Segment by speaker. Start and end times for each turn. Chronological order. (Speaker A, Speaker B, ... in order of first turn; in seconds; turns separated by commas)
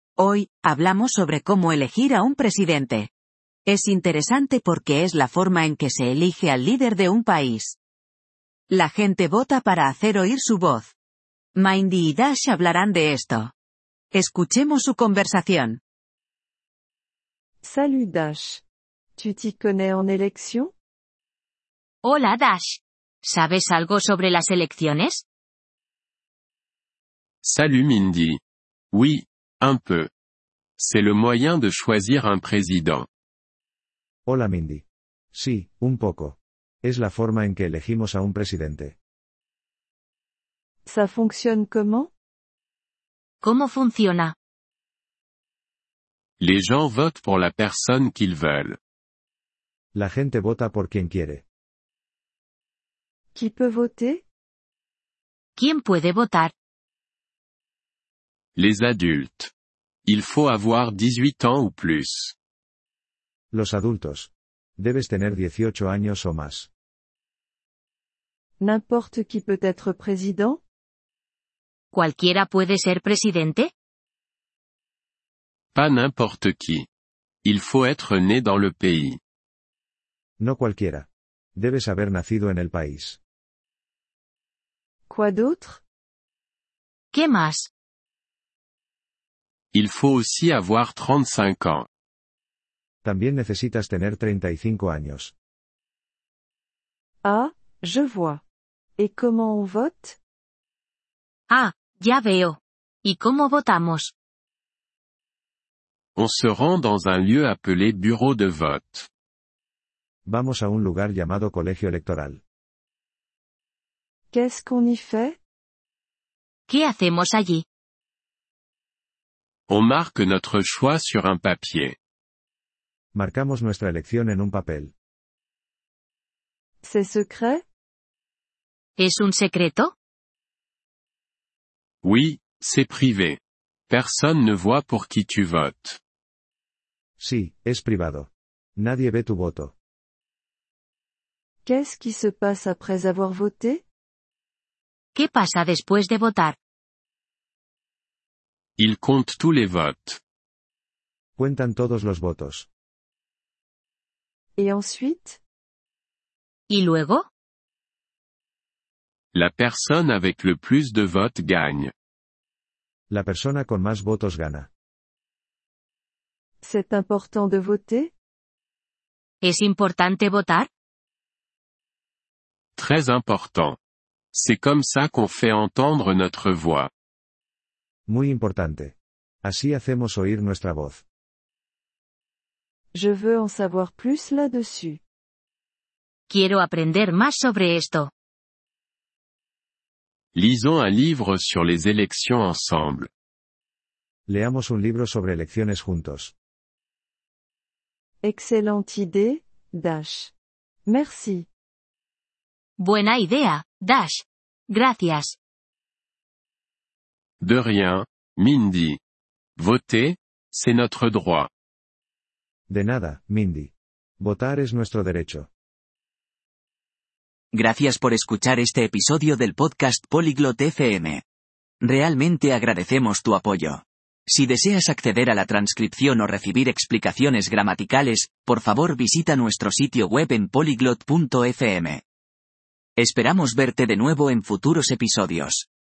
Speaker A: 0.2-3.1, Speaker A: 3.6-7.8, Speaker A: 8.7-10.9, Speaker A: 11.6-13.5, Speaker A: 14.1-15.8, Speaker B: 17.6-18.6, Speaker B: 19.2-20.7, Speaker C: 22.0-25.2, Speaker D: 27.4-28.4, Speaker D: 28.9-30.1, Speaker D: 30.8-33.1, Speaker E: 34.3-38.9, Speaker B: 40.9-42.1, Speaker C: 43.4-44.3, Speaker D: 46.4-48.8, Speaker E: 49.9-51.4, Speaker B: 53.3-54.2, Speaker C: 55.6-56.5, Speaker D: 58.5-59.5, Speaker D: 60.0-62.3, Speaker E: 63.5-66.7, Speaker B: 68.6-70.6, Speaker C: 71.9-73.7, Speaker D: 75.7-76.8, Speaker D: 77.4-79.2, Speaker E: 80.4-83.2, Speaker B: 85.1-85.8, Speaker C: 87.1-87.7, Speaker D: 89.7-91.9, Speaker E: 93.0-95.3, Speaker B: 97.2-98.4, Speaker B: 99.0-100.2, Speaker C: 101.5-104.1, Speaker D: 106.2-109.1, Speaker E: 110.2-112.4, Speaker B: 114.3-115.4, Speaker C: 116.7-117.6, Speaker D: 119.7-121.9, Speaker E: 123.1-124.9, Speaker B: 126.8-127.6, Speaker C: 129.0-129.9, Speaker D: 132.0-136.0, Speaker E: 137.2-139.7, Speaker B: 141.6-143.8, Speaker C: 145.1-146.6, Speaker D: 148.8-150.2, Speaker E: 151.4-152.7, Speaker B: 154.6-155.4, Speaker C: 156.7-157.2, Speaker D: 159.3-161.9, Speaker E: 163.1-164.7, Speaker B: 166.6-168.1, Speaker C: 169.4-170.7, Speaker D: 172.8-173.8, Speaker D: 174.3-176.9, Speaker E: 178.1-181.0, Speaker B: 182.9-185.0, Speaker C: 186.3-188.1, Speaker D: 190.3-193.1, Speaker E: 194.3-196.3, Speaker B: 198.2-200.3, Speaker B: 200.8-201.5, Speaker C: 202.8-205.3, Speaker D: 207.4-209.0, Speaker D: 209.6-211.5, Speaker E: 212.7-215.5, Speaker F: 217.5-221.2, Speaker F: 221.8-232.0, Speaker F: 233.0-235.7